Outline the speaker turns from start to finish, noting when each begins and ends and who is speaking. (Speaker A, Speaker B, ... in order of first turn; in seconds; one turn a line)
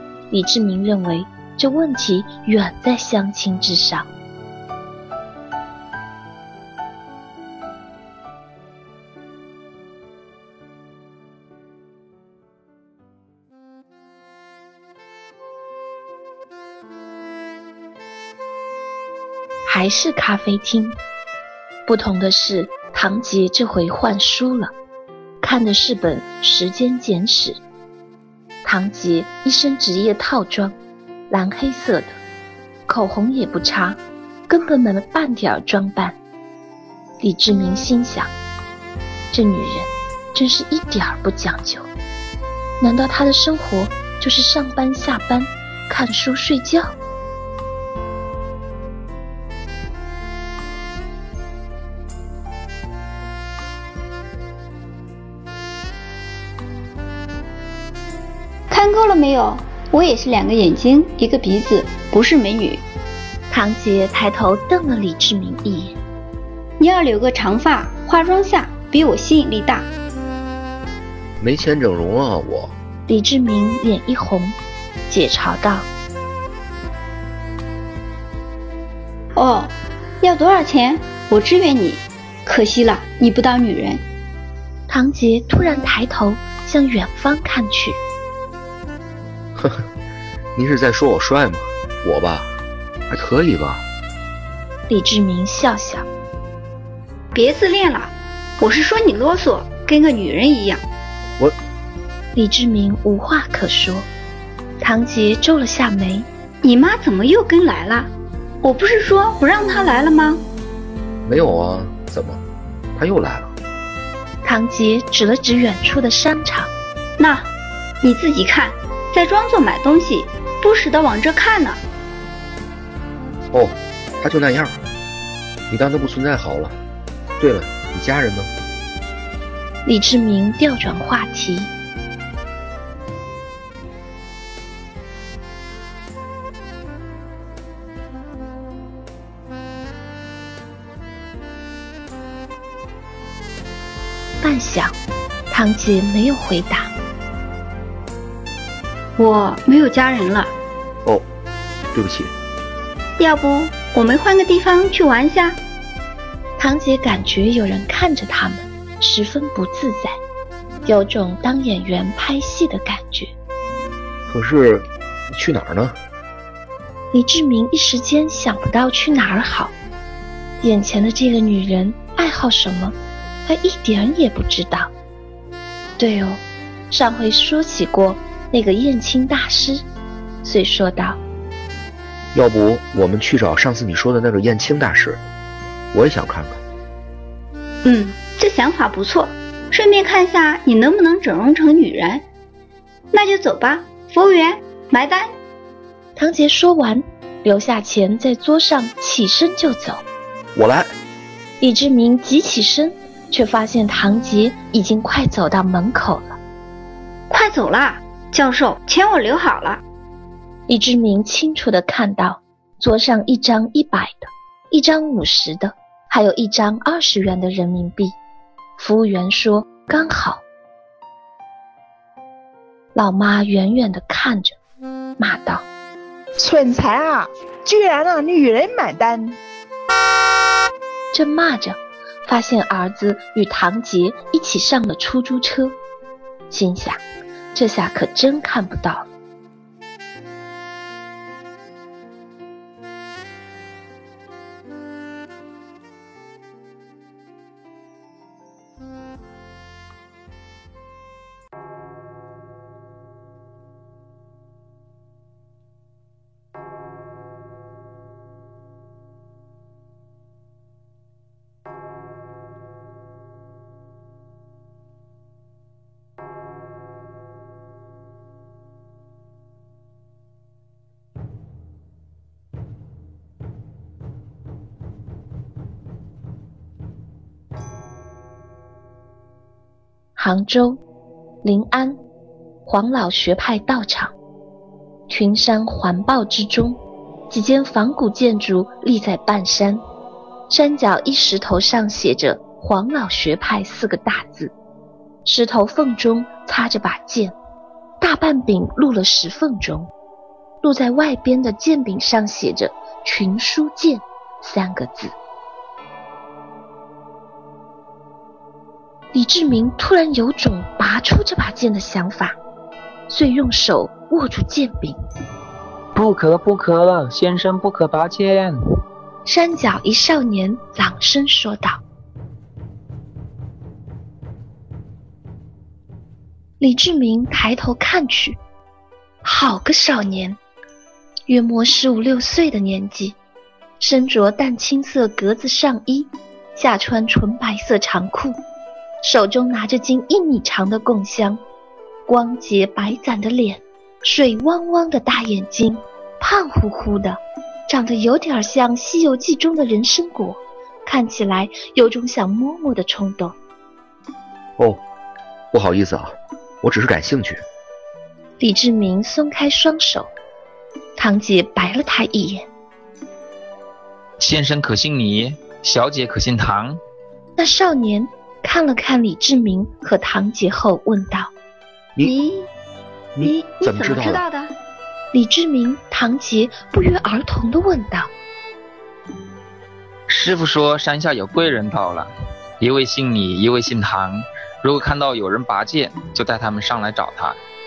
Speaker A: 0.3-4.1
Speaker A: 19.7-21.0
Speaker A: 21.9-24.7
Speaker A: 25.4-27.6
Speaker A: 28.6-30.8
Speaker A: 31.3-32.2
Speaker A: 32.9-36.2
Speaker A: 37.2-38.3
Speaker A: 39.3-41.9
Speaker A: 42.8-46.9
Speaker B: 58.7-62.8
Speaker A: 63.5-65.9
Speaker B: 66.8-69.9
Speaker C: 71.4-72.7
Speaker A: 73.1-74.6
Speaker A: 75.1-75.9
Speaker B: 79.3-84.0
Speaker A: 84.9-88.0
Speaker C: 89.6-89.9
Speaker C: 90.6-92.5
Speaker C: 93.1-93.8
Speaker A: 94.9-96.1
Speaker B: 97.3-100.8
Speaker A: 102.3-104.1
Speaker A: 104.8-106.3
Speaker B: 106.6-110.4
Speaker C: 111.2-112.4
Speaker C: 113.0-113.5
Speaker A: 114.4-116.7
Speaker B: 117.2-117.5
Speaker B: 118.0-121.8
Speaker C: 123.5-124.8
Speaker C: 125.7-126.8
Speaker C: 127.4-128.5
Speaker A: 129.9-131.7
Speaker A: 144.4-144.9
Speaker A: 145.5-146.9
Speaker B: 149.2-150.5
Speaker C: 151.9-152.3
Speaker B: 153.2-155.6
Speaker A: 156.6-160.2
Speaker A: 160.9-163.3
Speaker C: 164.3-165.9
Speaker A: 167.1-169.7
Speaker A: 170.6-174.9
Speaker A: 176.0-179.8
Speaker A: 180.4-181.2
Speaker C: 182.3-185.2
Speaker C: 185.9-186.6
Speaker B: 187.8-192.2
Speaker B: 193.1-195.3
Speaker A: 196.2-200.0
Speaker C: 200.6-200.9
Speaker A: 201.6-206.4
Speaker B: 207.3-209.8
Speaker A: 210.7-218.1
Speaker A: 218.8-220.4
Speaker A: 222.9-224.6
Speaker A: 225.2-225.7
Speaker D: 226.4-229.4
Speaker A: 231.1-235.8
Speaker A: 236.5-237.0
Speaker A: 237.5-239.1
Speaker A: 280.2-280.8
Speaker A: 281.4-282.0
Speaker A: 282.7-284.1
Speaker A: 285.1-286.8
Speaker A: 287.3-289.8
Speaker A: 290.5-294.5
Speaker A: 295.2-297.4
Speaker A: 298.0-299.9
Speaker A: 300.6-305.1
Speaker A: 309.1-312.4
Speaker A: 313.1-314.9
Speaker E: 315.9-318.6
Speaker A: 319.2-321.8
Speaker A: 326.6-328.4
Speaker A: 329.2-330.4
Speaker A: 331.3-333.2
Speaker A: 333.8-338.4
Speaker A: 339.0-341.4
Speaker A: 342.1-353.4
Speaker C: 355.5-357.4
Speaker A: 358.4-360.1
Speaker A: 361.0-362.5
Speaker E: 364.2-366.8
Speaker A: 367.4-371.3
Speaker B: 372.0-372.5
Speaker C: 373.2-374.2
Speaker B: 373.2-374.5
Speaker A: 375.1-378.1
Speaker E: 380.1-382.1
Speaker E: 382.6-387.4